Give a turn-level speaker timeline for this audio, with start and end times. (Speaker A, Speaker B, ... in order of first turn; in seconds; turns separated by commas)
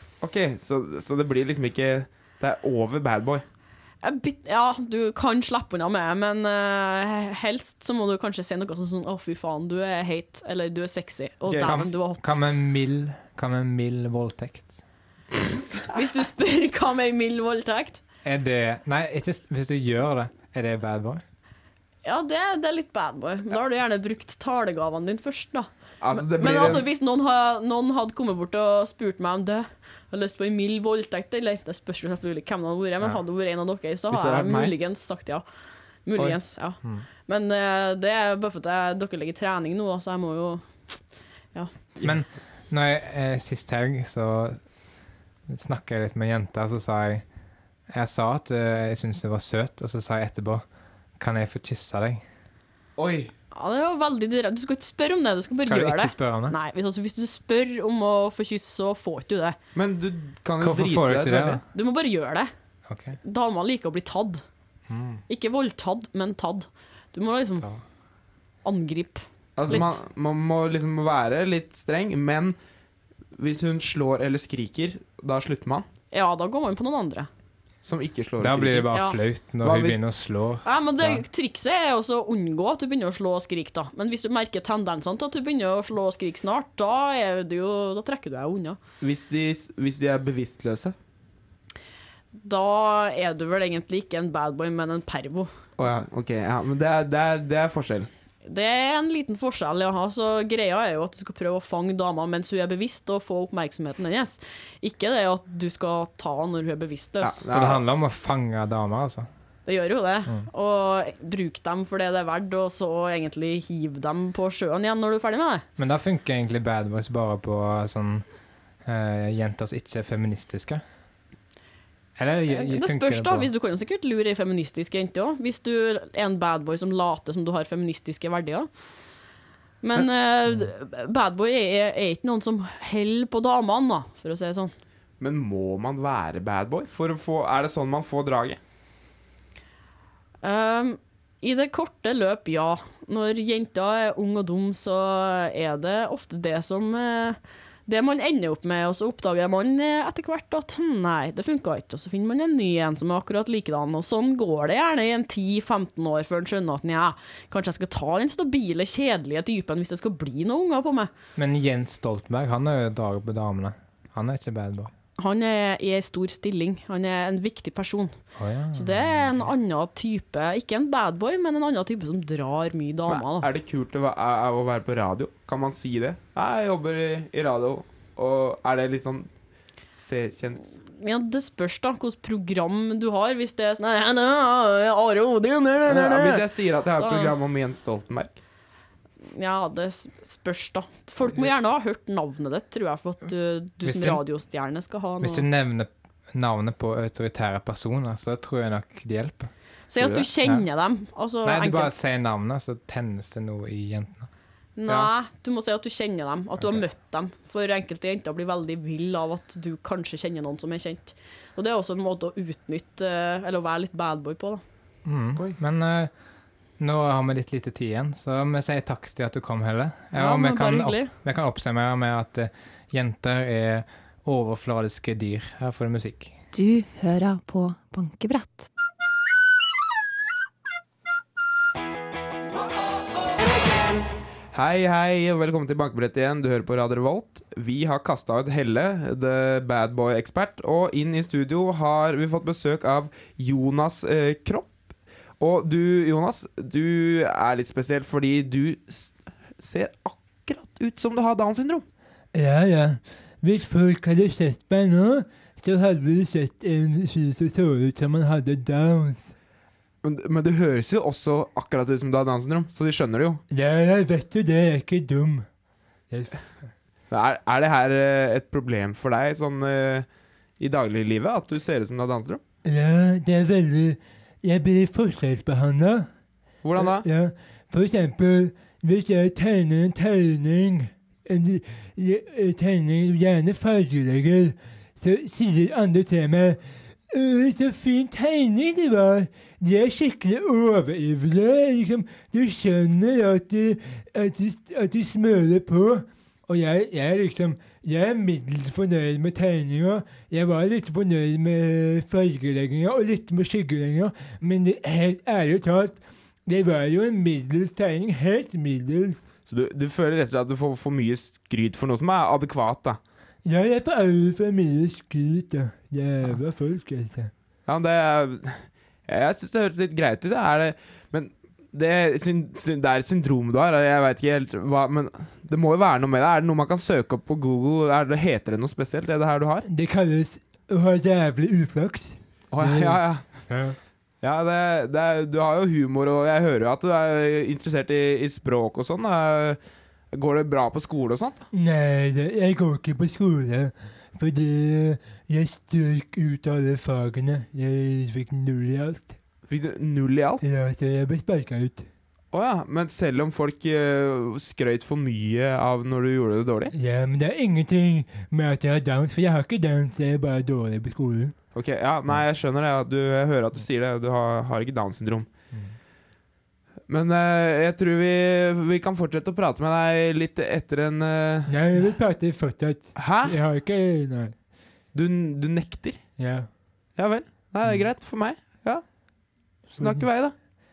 Speaker A: 0.2-3.4, Speaker B: 4.0-12.4, Speaker A: 11.5-11.9, Speaker C: 11.6-14.8, Speaker B: 15.9-18.0, Speaker C: 18.2-21.2, Speaker B: 22.0-35.4, Speaker A: 26.0-26.8, Speaker A: 34.1-34.7, Speaker B: 36.0-41.8, Speaker A: 41.9-42.2, Speaker C: 42.0-45.0, Speaker C: 45.5-47.2, Speaker C: 47.9-50.6, Speaker C: 51.2-52.2, Speaker A: 53.0-53.3, Speaker B: 53.5-59.5, Speaker C: 55.7-56.5, Speaker A: 59.7-61.6, Speaker C: 60.6-61.6, Speaker B: 61.7-62.5, Speaker C: 62.9-63.2, Speaker B: 63.2-64.4, Speaker C: 64.9-65.2, Speaker B: 65.3-67.7, Speaker B: 68.6-70.0, Speaker A: 69.5-72.6, Speaker A: 73.3-75.8, Speaker B: 76.1-77.3, Speaker A: 77.8-78.9, Speaker C: 78.4-81.2, Speaker A: 79.6-80.0, Speaker B: 80.6-88.8, Speaker A: 89.0-91.0, Speaker B: 92.3-95.5, Speaker A: 95.8-98.1, Speaker B: 98.4-107.4, Speaker A: 107.2-107.8, Speaker C: 107.5-109.3, Speaker B: 109.7-115.6, Speaker C: 115.8-118.2, Speaker C: 118.8-120.8, Speaker C: 122.2-123.5, Speaker B: 122.5-128.7, Speaker B: 129.8-134.7, Speaker A: 135.2-138.6, Speaker B: 140.4-161.1, Speaker C: 161.3-164.9, Speaker B: 165.2-168.2, Speaker C: 168.3-169.5, Speaker B: 168.7-173.5, Speaker A: 173.1-179.3, Speaker A: 179.9-180.7, Speaker B: 180.8-187.3, Speaker A: 185.8-188.3, Speaker B: 189.3-195.4, Speaker C: 193.8-194.2, Speaker C: 195.2-199.5, Speaker B: 199.9-201.9, Speaker A: 200.0-200.3, Speaker C: 201.4-204.3, Speaker B: 204.8-214.6, Speaker C: 215.0-216.1, Speaker C: 216.8-226.4, Speaker B: 220.1-221.1, Speaker D: 226.5-228.7, Speaker A: 234.5-244.7, Speaker A: 245.4-251.8, Speaker E: 252.3-259.3, Speaker A: 260.0-263.4, Speaker E: 263.5-265.4, Speaker E: 266.1-266.4, Speaker A: 267.1-270.1, Speaker A: 270.6-272.4, Speaker E: 272.6-276.1, Speaker A: 276.6-277.1, Speaker E: 276.8-309.2, Speaker A: 309.5-313.0, Speaker E: 313.4-317.3, Speaker A: 317.6-329.6, Speaker E: 329.6-333.8, Speaker A: 332.5-333.5, Speaker A: 334.2-339.6, Speaker A: 340.1-341.4, Speaker E: 341.5-349.1, Speaker A: 349.5-350.4, Speaker E: 350.4-351.9, Speaker A: 352.3-356.7, Speaker E: 356.7-361.4, Speaker A: 361.5-365.3, Speaker A: 366.9-371.5, Speaker E: 371.5-374.3, Speaker A: 372.9-373.4, Speaker A: 374.9-376.0, Speaker E: 376.2-376.5, Speaker A: 376.9-378.9, Speaker A: 379.7-380.3, Speaker E: 379.8-380.1